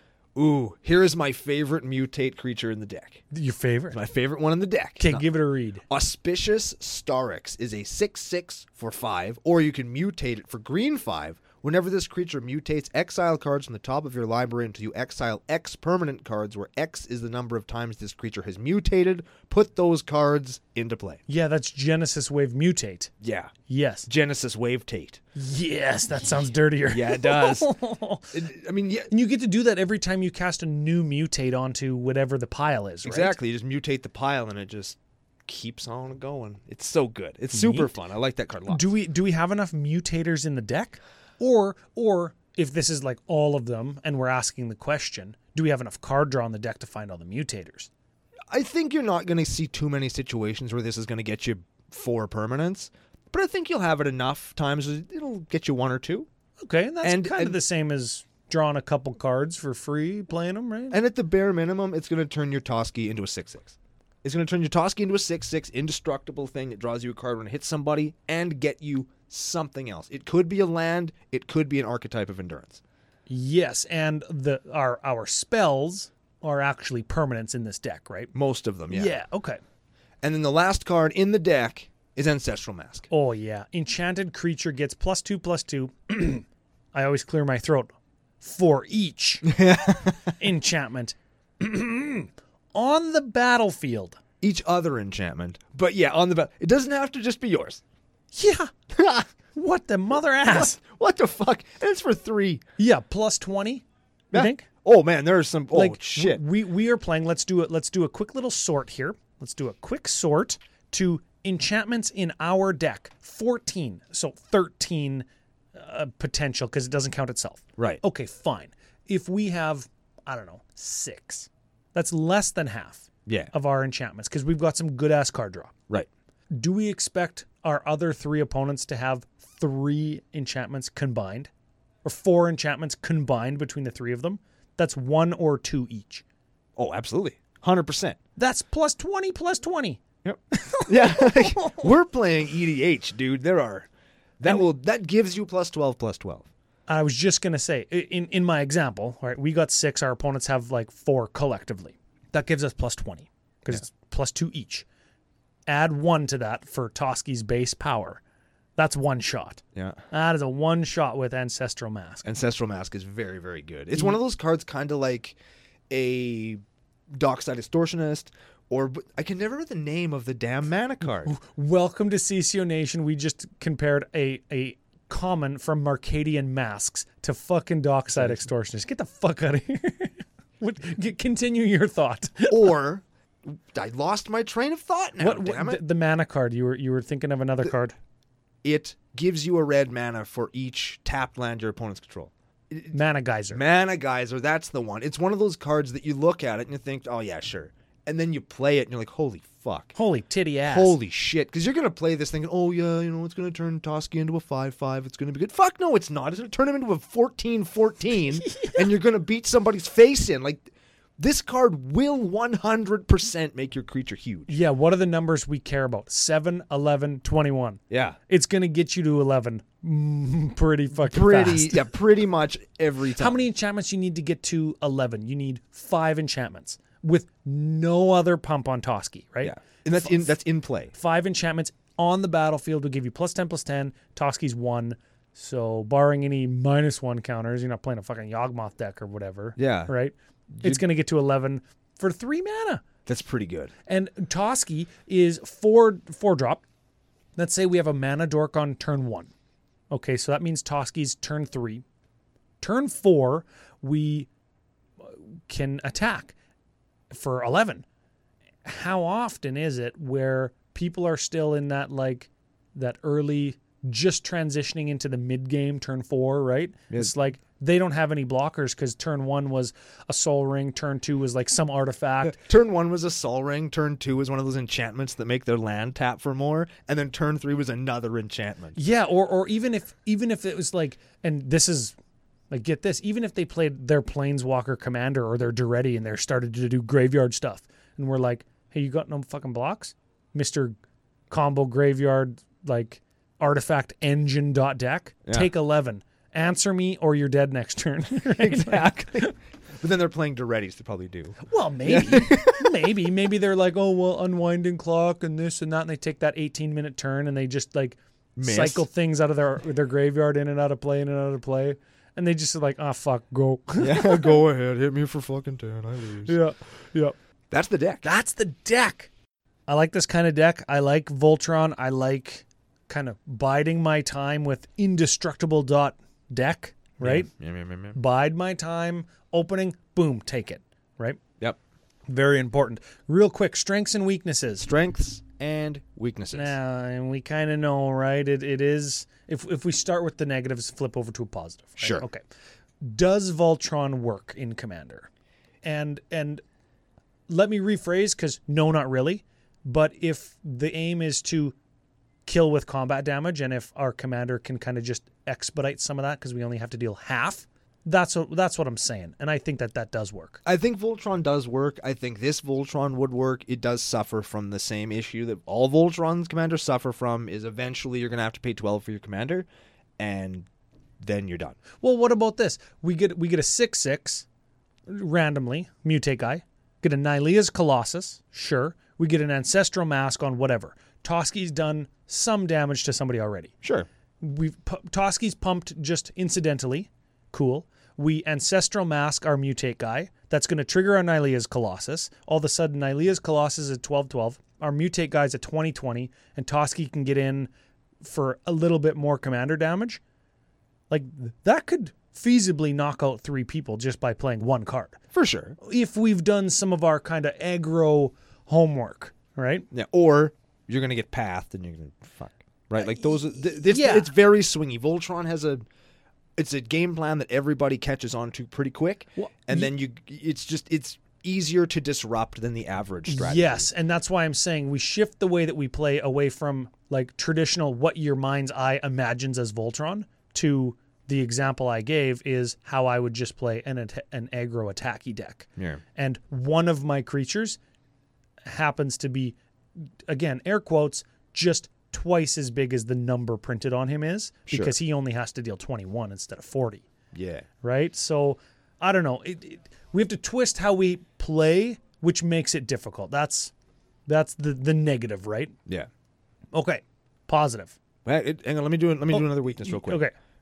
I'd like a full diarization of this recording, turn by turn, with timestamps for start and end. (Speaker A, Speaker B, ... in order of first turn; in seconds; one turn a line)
Speaker A: 0.3-3.2
Speaker B: 3.3-4.0
Speaker A: 3.9-5.3
Speaker B: 5.0-5.8
Speaker A: 5.9-21.2
Speaker B: 21.3-23.1
Speaker A: 23.2-23.5
Speaker B: 23.7-24.1
Speaker A: 24.1-25.2
Speaker B: 25.3-28.3
Speaker A: 26.9-27.7
Speaker A: 28.3-29.1
Speaker B: 29.1-33.4
Speaker A: 33.0-38.9
Speaker B: 37.5-37.9
Speaker B: 38.7-47.9
Speaker A: 48.5-56.3
Speaker B: 56.6-61.0
Speaker A: 57.0-57.6
Speaker A: 60.9-72.8
Speaker B: 73.3-78.3
Speaker A: 78.3-79.1
Speaker B: 78.9-79.6
Speaker A: 80.2-83.1
Speaker B: 83.1-89.6
Speaker A: 89.4-90.3
Speaker B: 90.4-94.2
Speaker A: 94.4-97.8
Speaker B: 98.3-98.7
Speaker A: 98.9-99.3
Speaker B: 99.5-100.8
Speaker A: 100.4-102.6
Speaker B: 102.8-104.7
Speaker A: 104.3-106.4
Speaker B: 105.7-125.7
Speaker A: 123.2-123.5
Speaker B: 126.5-131.5
Speaker B: 132.0-136.2
Speaker A: 136.8-138.2
Speaker B: 138.4-140.0
Speaker A: 140.2-143.9
Speaker B: 140.5-141.9
Speaker A: 144.4-146.5
Speaker B: 146.9-154.8
Speaker B: 155.7-158.2
Speaker B: 158.8-162.2
Speaker A: 162.2-165.4
Speaker A: 165.9-166.6
Speaker A: 167.1-171.3
Speaker B: 171.2-182.7
Speaker A: 178.1-178.5
Speaker A: 182.5-185.8
Speaker B: 185.2-187.9
Speaker A: 188.6-192.9
Speaker B: 192.9-193.6
Speaker A: 193.5-199.9
Speaker B: 199.9-201.0
Speaker A: 200.7-210.7
Speaker B: 208.4-208.8
Speaker A: 211.2-214.5
Speaker B: 214.5-221.9
Speaker A: 217.9-218.2
Speaker A: 221.0-223.4
Speaker B: 223.2-230.2
Speaker A: 229.4-230.9
Speaker B: 230.9-242.8
Speaker A: 239.6-239.9
Speaker A: 240.5-240.8
Speaker A: 243.1-243.7
Speaker B: 243.9-246.6
Speaker B: 247.4-249.3
Speaker B: 249.9-251.8
Speaker B: 252.6-254.3
Speaker B: 255.0-256.3
Speaker B: 257.1-257.8
Speaker B: 258.6-272.4
Speaker A: 272.2-278.8
Speaker B: 278.8-281.9
Speaker B: 282.5-290.8
Speaker B: 291.3-299.3
Speaker A: 298.3-302.9
Speaker B: 301.4-314.4
Speaker A: 308.4-308.8
Speaker A: 313.8-316.4
Speaker B: 316.2-317.1
Speaker A: 317.5-318.0
Speaker B: 318.0-319.1
Speaker B: 319.7-327.3
Speaker A: 327.0-328.0
Speaker B: 327.9-331.2
Speaker B: 332.1-334.7
Speaker A: 334.6-336.6
Speaker B: 336.3-342.2
Speaker A: 341.8-342.0
Speaker B: 342.8-345.1
Speaker B: 345.6-346.4
Speaker B: 347.3-351.5
Speaker B: 352.2-360.4
Speaker A: 360.4-369.4
Speaker A: 370.0-370.5
Speaker A: 371.0-371.6
Speaker B: 371.8-374.2
Speaker B: 374.9-383.5
Speaker A: 383.6-383.9
Speaker B: 384.2-397.5
Speaker B: 398.0-400.0
Speaker B: 400.9-405.0
Speaker A: 405.1-405.6
Speaker B: 405.6-409.6
Speaker A: 409.7-415.6
Speaker B: 413.7-414.1
Speaker A: 416.4-423.7
Speaker B: 419.2-419.7
Speaker B: 423.1-437.6
Speaker B: 438.5-439.4
Speaker B: 440.1-446.8
Speaker A: 444.5-444.7
Speaker A: 447.1-447.4
Speaker B: 447.6-453.5
Speaker B: 454.1-455.5
Speaker B: 456.5-457.7
Speaker A: 458.0-460.0
Speaker B: 459.1-460.1